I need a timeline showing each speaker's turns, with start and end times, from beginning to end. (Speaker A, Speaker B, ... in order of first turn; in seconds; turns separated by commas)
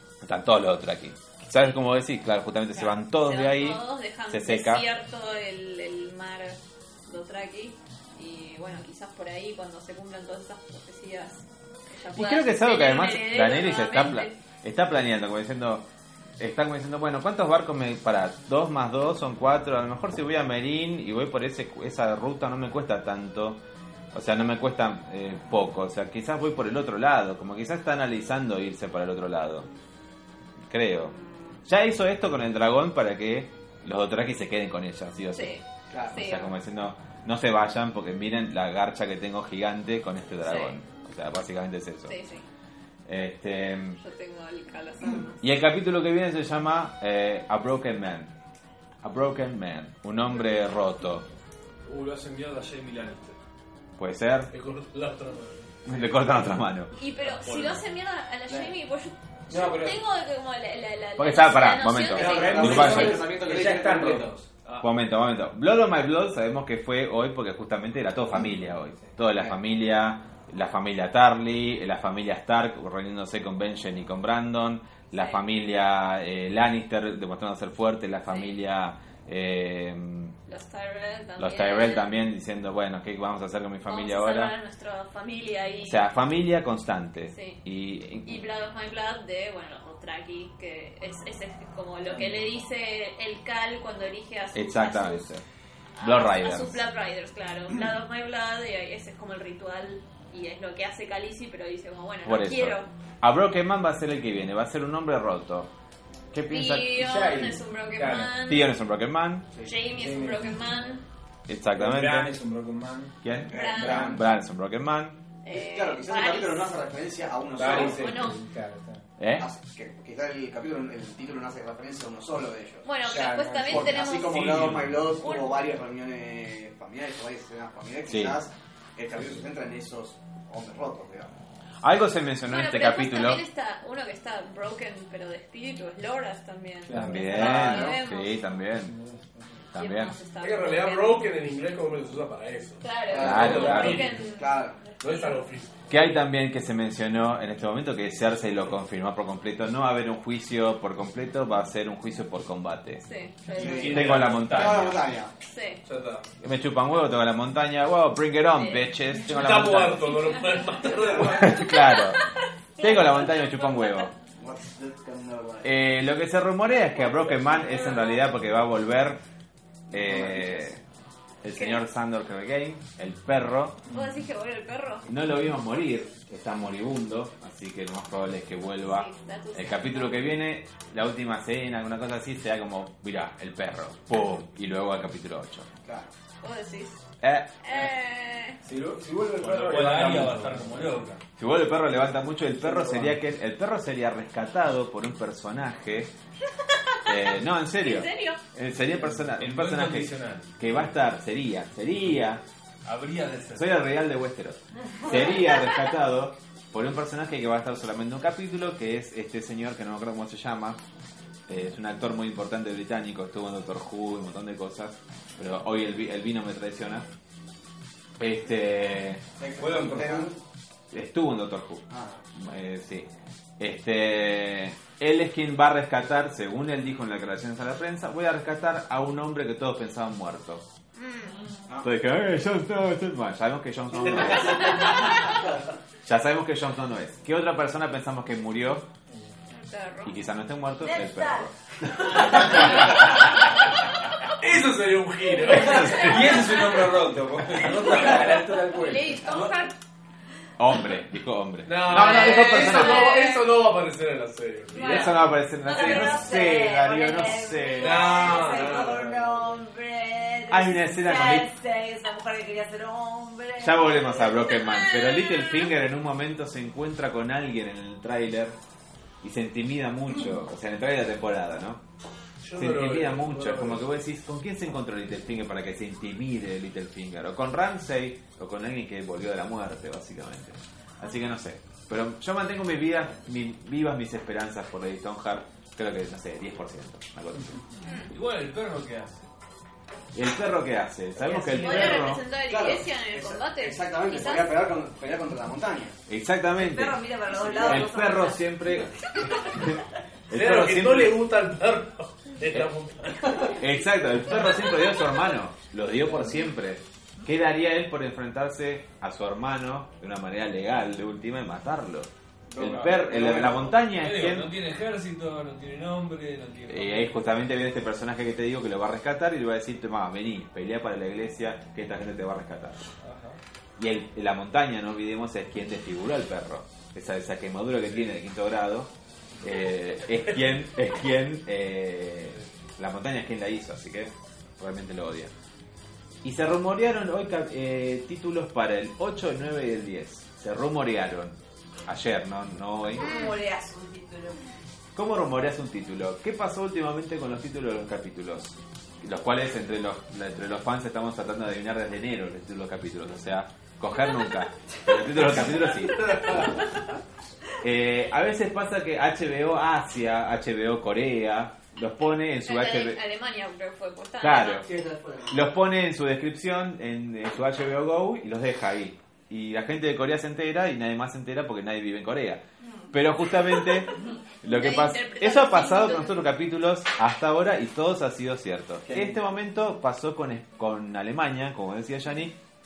Speaker A: 0.2-4.9, Speaker B: 2.7-14.4, Speaker A: 12.2-15.9, Speaker A: 16.4-23.6, Speaker A: 24.1-29.7, Speaker A: 30.7-31.1, Speaker B: 30.9-31.6, Speaker A: 31.6-35.5, Speaker B: 35.3-36.5, Speaker C: 35.9-36.3, Speaker A: 36.1-42.2, Speaker B: 40.4-40.8, Speaker B: 42.1-42.5, Speaker A: 43.1-44.0, Speaker B: 44.0-45.4, Speaker A: 45.4-48.3, Speaker A: 49.0-51.2, Speaker D: 51.9-53.4, Speaker A: 54.0-54.5, Speaker E: 54.5-55.6, Speaker A: 55.9-56.9, Speaker B: 57.0-62.5, Speaker D: 57.3-57.8, Speaker C: 58.5-58.7, Speaker F: 59.5-60.0, Speaker A: 61.2-63.3, Speaker C: 62.0-64.5, Speaker F: 62.2-64.4, Speaker A: 64.8-80.3, Speaker C: 69.3-69.6, Speaker B: 75.1-75.4, Speaker B: 78.3-78.6, Speaker B: 80.5-82.2, Speaker A: 81.4-84.5, Speaker B: 83.9-86.1, Speaker A: 85.8-88.5, Speaker B: 87.3-87.6, Speaker B: 88.2-95.3, Speaker A: 94.5-95.4, Speaker B: 96.0-102.9, Speaker A: 96.0-96.8, Speaker A: 102.2-105.7, Speaker A: 106.3-107.0, Speaker B: 106.5-108.7, Speaker F: 106.9-108.4, Speaker A: 108.4-109.5, Speaker C: 109.5-109.8, Speaker B: 109.6-111.0, Speaker F: 109.9-110.6, Speaker A: 111.5-112.3, Speaker F: 111.8-114.2, Speaker A: 113.2-115.2, Speaker C: 113.5-114.2, Speaker B: 113.5-114.1, Speaker B: 115.4-116.7, Speaker C: 115.5-118.2, Speaker F: 117.5-119.1, Speaker B: 117.6-118.4, Speaker A: 119.2-119.5, Speaker C: 119.4-122.9, Speaker B: 122.8-124.6, Speaker F: 123.0-124.1, Speaker C: 123.6-131.3, Speaker D: 124.2-125.0, Speaker B: 125.2-125.6, Speaker A: 128.1-128.4, Speaker A: 131.8-133.4, Speaker B: 132.5-138.3, Speaker F: 136.8-137.5, Speaker A: 136.9-138.9, Speaker C: 137.3-138.0, Speaker F: 138.5-139.7, Speaker A: 139.7-140.2, Speaker B: 139.7-141.2, Speaker E: 140.4-144.2, Speaker B: 142.8-145.4, Speaker C: 143.1-144.8, Speaker A: 143.1-144.1, Speaker F: 143.5-144.0, Speaker E: 145.0-145.7, Speaker A: 145.9-153.0, Speaker B: 153.0-153.8, Speaker D: 153.6-155.0, Speaker C: 153.6-155.3, Speaker E: 153.6-154.4, Speaker A: 153.8-155.1, Speaker B: 155.4-155.8, Speaker E: 155.8-156.3, Speaker A: 156.4-160.1, Speaker B: 158.5-158.9, Speaker E: 159.2-161.9, Speaker B: 160.2-160.9, Speaker A: 161.3-162.2, Speaker B: 161.6-162.3, Speaker B: 162.8-164.0, Speaker A: 162.8-164.1, Speaker C: 164.4-165.8, Speaker A: 165.6-169.2, Speaker B: 167.6-168.2, Speaker A: 169.9-170.8, Speaker C: 169.9-170.7, Speaker A: 171.4-173.8, Speaker B: 171.5-171.8, Speaker B: 173.9-175.1, Speaker A: 175.1-185.7, Speaker B: 178.8-180.3, Speaker C: 185.8-186.1, Speaker B: 186.4-187.0, Speaker A: 187.2-187.7, Speaker B: 187.6-188.6, Speaker F: 188.6-191.1, Speaker D: 189.4-191.2, Speaker A: 191.4-196.1, Speaker F: 192.6-193.2, Speaker B: 196.7-197.1, Speaker A: 197.1-202.4, Speaker B: 197.8-198.4, Speaker D: 199.1-200.9, Speaker D: 202.8-203.8, Speaker A: 203.5-210.8, Speaker A: 211.5-217.1, Speaker A: 218.2-219.2, Speaker C: 219.4-220.4, Speaker F: 219.6-220.3, Speaker A: 220.9-230.7, Speaker C: 221.9-222.2, Speaker B: 230.9-231.4, Speaker C: 231.7-231.9, Speaker A: 231.8-235.2, Speaker A: 236.0-238.9, Speaker F: 239.1-239.3, Speaker B: 239.5-240.2, Speaker A: 240.1-243.1, Speaker G: 240.8-242.9, Speaker E: 244.4-246.1, Speaker A: 245.5-246.4, Speaker F: 246.0-249.6, Speaker B: 248.6-249.7, Speaker A: 250.6-253.3, Speaker E: 251.7-255.2, Speaker B: 251.9-253.6, Speaker A: 254.8-258.6, Speaker G: 254.8-264.4, Speaker E: 257.8-259.1, Speaker A: 260.5-261.5, Speaker A: 263.6-268.6, Speaker B: 264.4-265.7, Speaker A: 269.2-271.8, Speaker E: 272.4-273.9, Speaker A: 272.5-287.6, Speaker B: 287.8-288.1, Speaker D: 288.1-289.3, Speaker A: 290.1-292.2, Speaker G: 291.3-292.1, Speaker B: 291.5-294.6, Speaker C: 292.4-296.0, Speaker A: 296.1-297.0, Speaker G: 296.5-298.9, Speaker C: 297.4-297.7, Speaker A: 297.6-301.2, Speaker E: 300.3-303.6, Speaker A: 303.6-314.5, Speaker C: 312.5-313.8, Speaker D: 313.9-317.3, Speaker A: 316.7-322.9, Speaker D: 323.0-323.4, Speaker A: 323.8-335.3, Speaker A: 336.2-343.1, Speaker G: 342.9-344.4, Speaker A: 344.9-356.0, Speaker C: 355.9-356.6, Speaker A: 357.6-363.0, Speaker B: 362.4-364.7, Speaker A: 364.2-364.7, Speaker C: 364.6-365.5, Speaker A: 365.3-382.4, Speaker G: 373.4-373.8, Speaker B: 374.4-376.3